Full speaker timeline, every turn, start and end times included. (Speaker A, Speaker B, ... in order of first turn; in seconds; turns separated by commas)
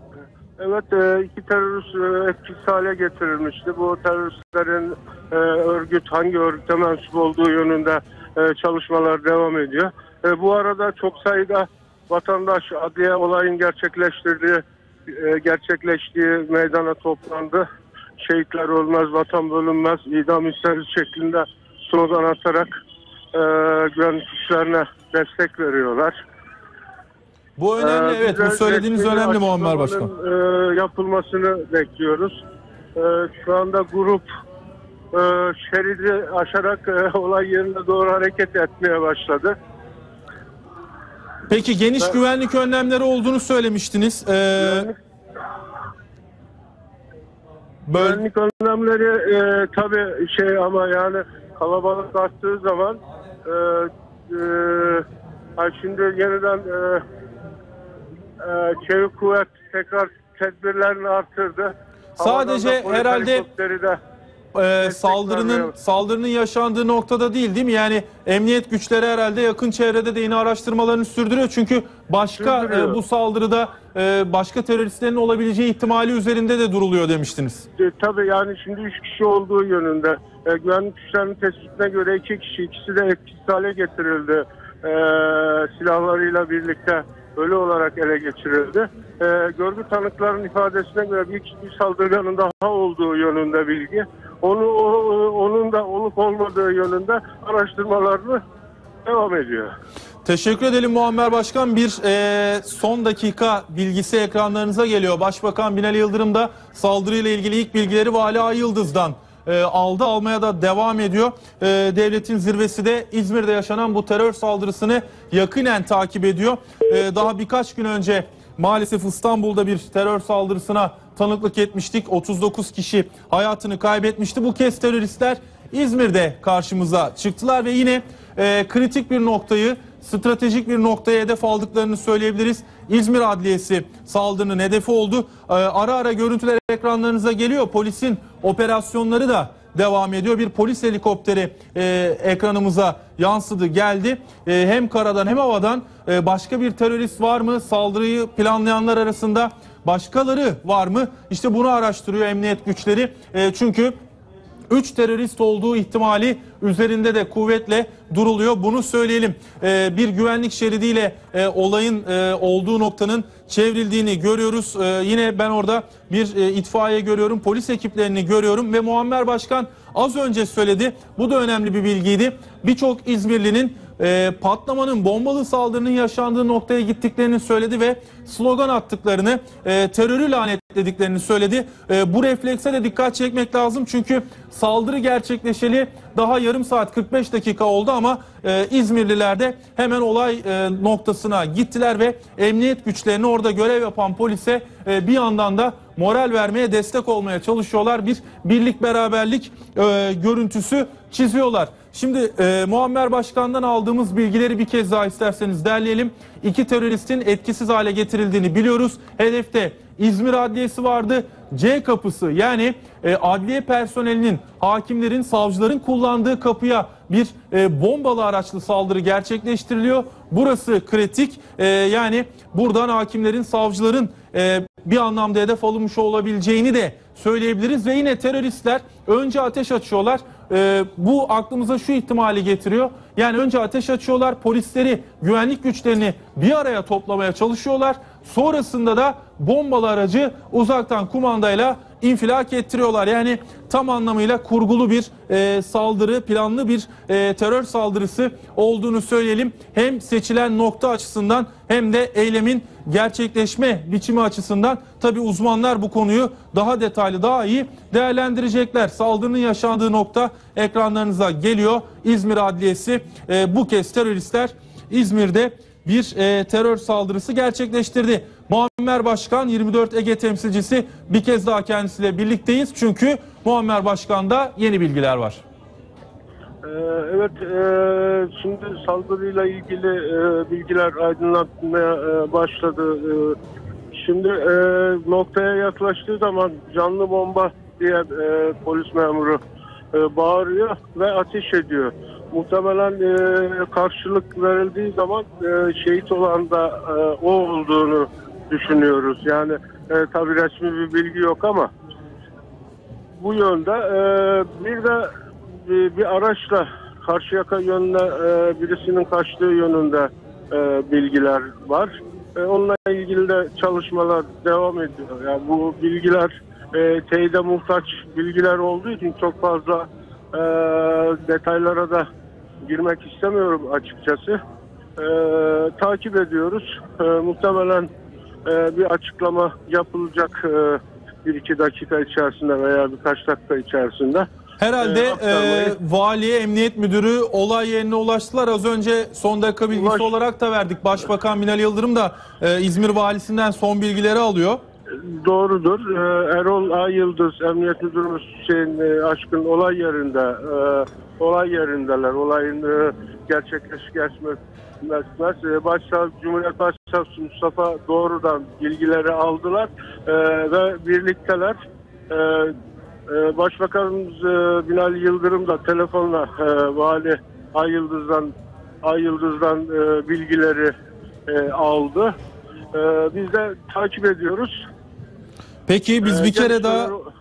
Speaker A: 0.6-17.6, Speaker A: 18.2-22.7, Speaker A: 23.3-26.2, Speaker B: 27.6-30.1, Speaker A: 27.8-32.4, Speaker A: 33.0-34.3, Speaker A: 35.1-39.5, Speaker B: 41.5-44.9, Speaker A: 44.6-44.9, Speaker B: 47.9-48.2, Speaker A: 47.9-55.0, Speaker A: 55.6-57.0, Speaker A: 58.4-64.0, Speaker B: 62.2-63.4, Speaker B: 64.5-77.7, Speaker A: 64.8-65.7, Speaker A: 72.3-73.0, Speaker A: 77.8-98.4, Speaker A: 99.0-99.7, Speaker B: 100.2-154.0, Speaker B: 154.7-275.4, Speaker A: 276.6-283.4, Speaker A: 283.9-289.4, Speaker A: 289.9-301.7, Speaker A: 303.2-305.1, Speaker A: 305.6-322.1, Speaker A: 322.6-324.4, Speaker A: 325.0-327.9, Speaker A: 328.4-334.3, Speaker B: 334.6-344.6, Speaker A: 334.8-335.8, Speaker A: 339.7-340.1, Speaker A: 344.9-362.5, Speaker A: 363.1-368.3, Speaker A: 368.8-370.7, Speaker A: 371.3-372.1, Speaker A: 372.7-374.6, Speaker B: 375.7-376.9, Speaker A: 376.0-377.1